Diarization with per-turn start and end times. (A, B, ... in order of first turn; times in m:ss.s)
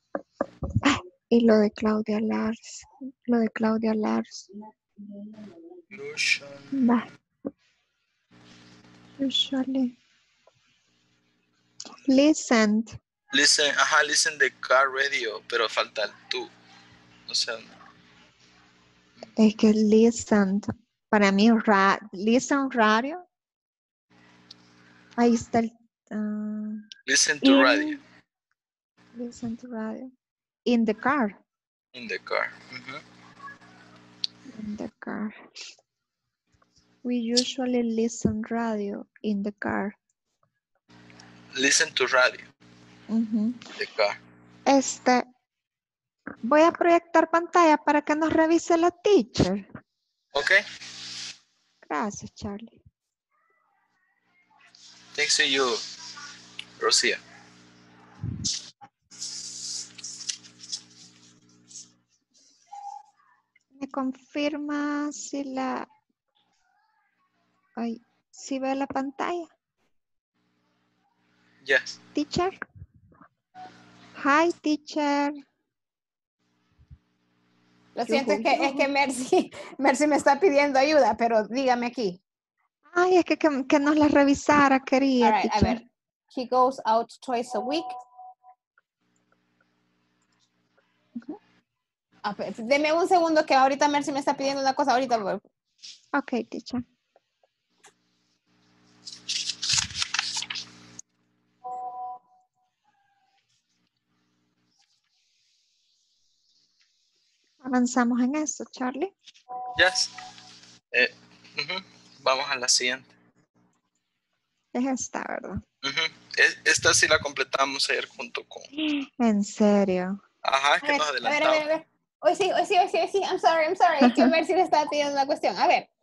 0:00.8-0:04.4 A
0:05.9-0:06.7 B
0:06.7-0:07.0 A
0:09.2-0:09.9 A
0:12.0-0:12.9 A
0:13.3-0:16.5 B
0:17.3-0:17.7 B
0:19.4-0:23.2 A
0:25.2-0:26.9 A
0:27.0-0:28.0 B
0:27.4-0:27.8 A
0:29.2-0:30.1 A
0:30.7-0:31.4 A
0:31.9-0:33.0 B
0:34.5-0:35.4 A
0:37.0-0:40.0 A
0:41.5-0:42.5 B
0:43.1-0:43.6 A
0:43.8-0:44.2 B
0:44.6-0:45.2 A
0:46.4-0:49.6 A
0:50.3-0:50.6 B
0:51.8-0:52.8 A
0:55.1-0:55.8 B
0:56.8-0:57.2 B
1:03.7-1:05.8 A
1:07.8-1:09.5 A
1:11.6-1:12.0 B
1:12.1-1:12.6 A
1:14.2-1:15.4 A
1:18.0-1:22.2 C
1:18.1-1:18.9 A
1:22.9-1:25.8 A
1:25.2-1:27.9 C
1:32.2-1:35.4 C
1:36.1-1:36.8 A
1:47.6-1:49.1 A
1:49.8-1:50.1 B
1:50.9-1:53.1 B
1:54.7-1:55.6 A
1:55.8-1:58.7 B
1:59.0-2:00.2 A
2:00.4-2:01.6 B
2:00.8-2:05.9 C
2:04.0-2:04.3 A